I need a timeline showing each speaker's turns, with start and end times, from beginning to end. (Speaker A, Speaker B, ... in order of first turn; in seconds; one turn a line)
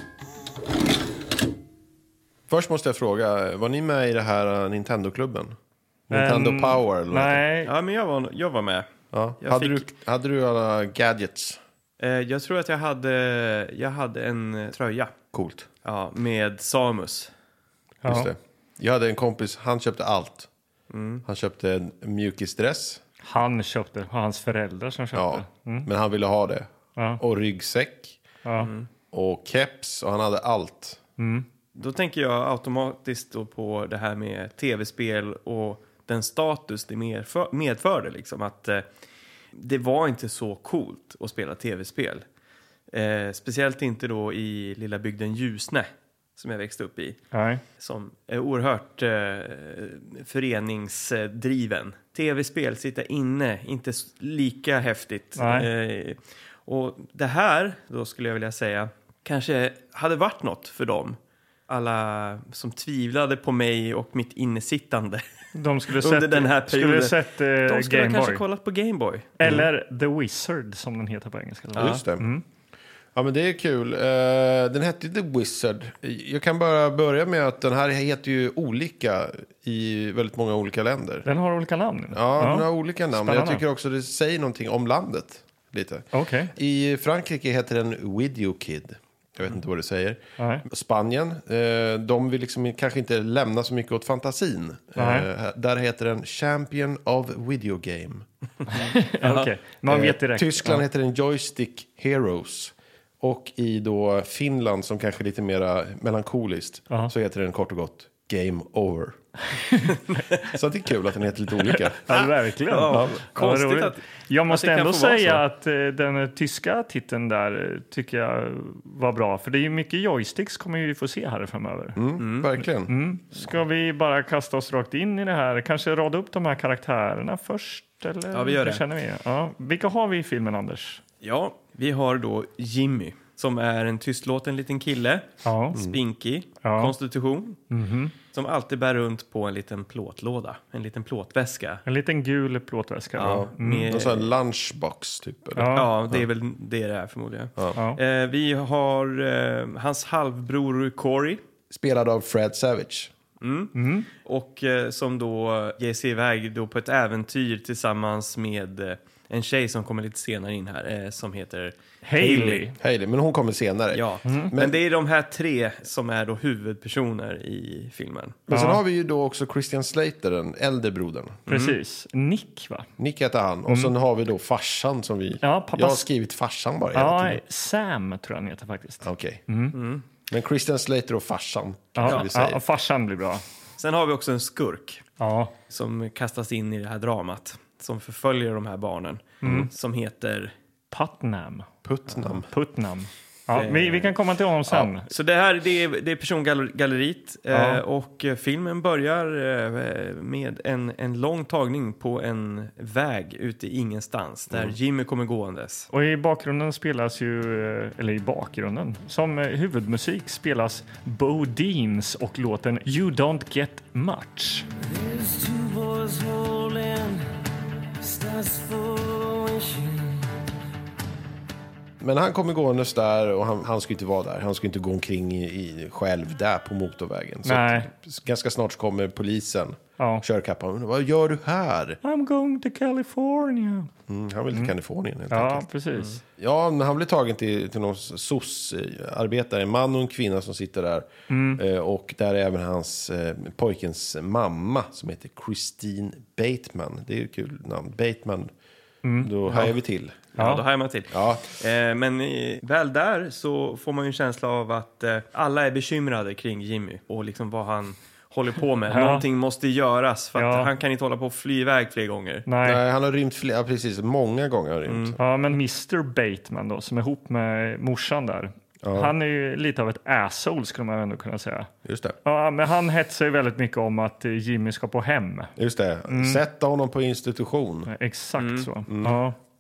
Speaker A: 2.5-5.6
Speaker A: 6.1-7.4
Speaker B: 6.1-7.7
Speaker C: 7.6-8.9
Speaker A: 9.1-11.6
Speaker C: 9.4-9.9
Speaker C: 12.0-15.1
Speaker A: 15.3-15.7
Speaker C: 15.8-17.3
Speaker B: 18.0-18.3
Speaker A: 18.0-20.5
Speaker C: 20.9-21.2
Speaker A: 21.2-23.0
Speaker B: 23.2-25.9
Speaker A: 25.1-28.2
Speaker B: 27.0-27.2
Speaker B: 28.4-28.7
Speaker C: 28.6-28.9
Speaker A: 29.1-31.0
Speaker B: 31.2-31.5
Speaker C: 31.8-38.9
Speaker C: 39.5-42.2
Speaker C: 42.9-47.2
Speaker B: 47.3-47.6
Speaker C: 47.8-65.2
Speaker B: 55.4-55.7
Speaker B: 65.5-68.4
Speaker C: 65.9-69.4
Speaker B: 69.4-72.4
Speaker A: 69.4-69.7
Speaker A: 71.8-72.3
Speaker A: 73.2-81.3
Speaker B: 81.3-83.6
Speaker A: 82.1-98.3
Speaker B: 86.1-86.5
Speaker B: 90.4-90.6
Speaker B: 95.0-95.3
Speaker B: 98.7-100.8
Speaker C: 99.2-99.5
Speaker A: 99.9-109.2
Speaker A: 110.5-112.0
Speaker B: 112.0-122.0
Speaker C: 112.1-115.4
Speaker A: 112.9-113.2
Speaker A: 122.0-122.9
Speaker C: 122.2-122.5
Speaker B: 122.9-131.0
Speaker C: 128.3-128.8
Speaker C: 131.2-137.6
Speaker B: 135.4-135.8
Speaker B: 136.6-136.9
Speaker B: 137.7-138.1
Speaker C: 138.3-141.8
Speaker B: 141.9-143.9
Speaker C: 143.2-144.3
Speaker A: 143.2-146.2
Speaker B: 145.6-145.9
Speaker C: 145.7-151.4
Speaker A: 151.7-153.1
Speaker C: 153.4-162.7
Speaker B: 153.8-154.1
Speaker B: 162.1-162.8
Speaker A: 162.8-164.8
Speaker C: 163.9-168.4
Speaker B: 164.2-164.5
Speaker A: 168.5-171.4
Speaker B: 168.5-168.8
Speaker C: 171.5-171.8
Speaker B: 171.5-172.9
Speaker A: 173.0-177.4
Speaker B: 173.7-173.9
Speaker B: 175.4-176.1
Speaker B: 176.9-179.8
Speaker A: 179.0-179.4
Speaker C: 179.7-180.0
Speaker A: 180.3-182.6
Speaker B: 182.0-183.4
Speaker C: 183.8-185.1
Speaker B: 185.2-185.5
Speaker C: 185.7-190.5
Speaker A: 189.4-189.7
Speaker B: 189.4-189.7
Speaker B: 190.9-195.1
Speaker A: 191.8-192.5
Speaker C: 193.5-194.1
Speaker C: 195.1-205.9
Speaker B: 197.5-197.8
Speaker B: 205.9-214.7
Speaker A: 222.0-232.0
Speaker B: 227.4-227.9
Speaker B: 230.0-230.2
Speaker B: 232.0-233.9
Speaker A: 234.1-235.7
Speaker B: 235.3-236.2
Speaker A: 236.4-248.5
Speaker B: 241.3-241.6
Speaker B: 249.0-249.7
Speaker A: 249.2-250.2
Speaker C: 250.4-262.4
Speaker B: 250.4-250.6
Speaker A: 251.1-251.5
Speaker B: 258.9-259.2
Speaker B: 260.4-260.7
Speaker B: 262.5-262.8
Speaker A: 262.6-265.2
Speaker C: 264.9-265.1
Speaker B: 265.2-271.7
Speaker A: 268.8-269.1
Speaker A: 271.9-272.2
Speaker B: 272.2-275.5
Speaker A: 275.6-277.9
Speaker B: 276.1-276.4
Speaker B: 277.9-279.4
Speaker C: 278.4-278.7
Speaker A: 278.9-279.2